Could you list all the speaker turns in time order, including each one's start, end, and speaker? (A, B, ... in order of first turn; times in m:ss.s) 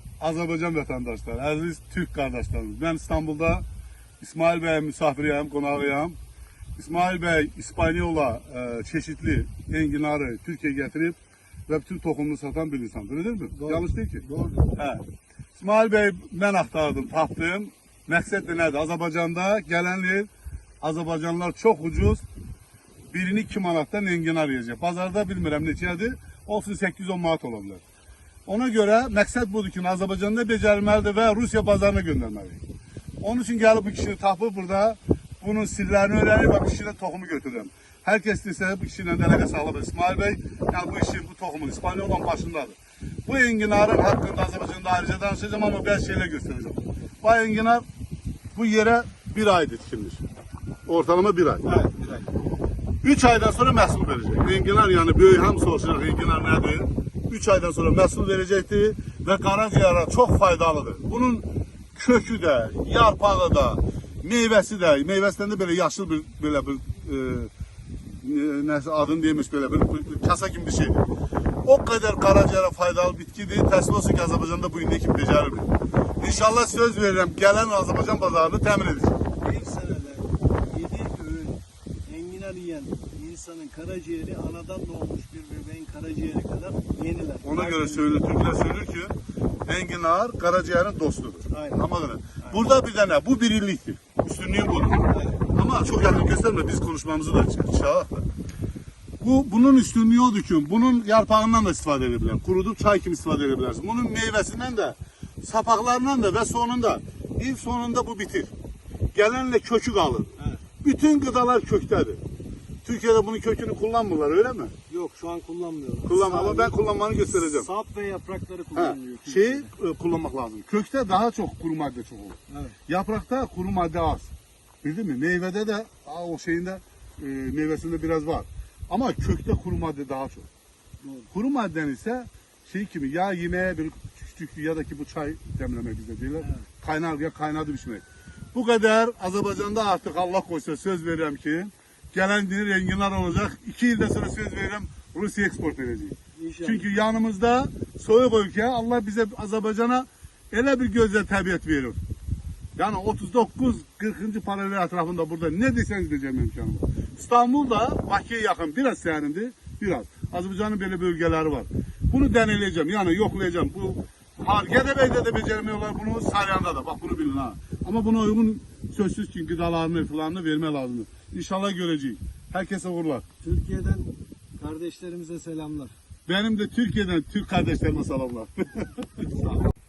0:00.2-0:03.6 A
0:04.2-0:06.2 A
0:06.8-0:11.2 A
0:11.7-0:15.0 A
0:13.5-0:14.7 B
0:15.5-0:20.3 A
0:20.8-0:22.2 A
0:23.1-0:27.8 A
0:28.5-0:32.6 A
0:33.2-0:47.8 A
0:48.5-0:50.2 A
0:50.8-0:51.8 A
0:51.7-0:52.1 B
0:53.0-1:07.5 A
1:08.2-1:11.0 A
1:11.6-1:19.2 A
1:19.4-1:28.3 B
1:27.4-1:38.2 A
1:31.5-1:31.8 B
1:35.1-1:35.4 B
1:39.2-1:48.5 A
1:49.1-1:52.2 A
1:52.8-1:54.7 A
1:54.9-1:59.7 B
1:56.0-1:57.7 A
1:58.7-2:04.3 A
2:02.5-2:02.8 B
2:04.8-2:10.5 A
2:11.0-2:11.3 B
2:11.3-2:18.0 A
2:18.5-2:32.0 A
2:26.4-2:26.8 B
2:32.8-2:53.2 A
2:53.4-2:55.9 B
2:56.3-2:59.4 A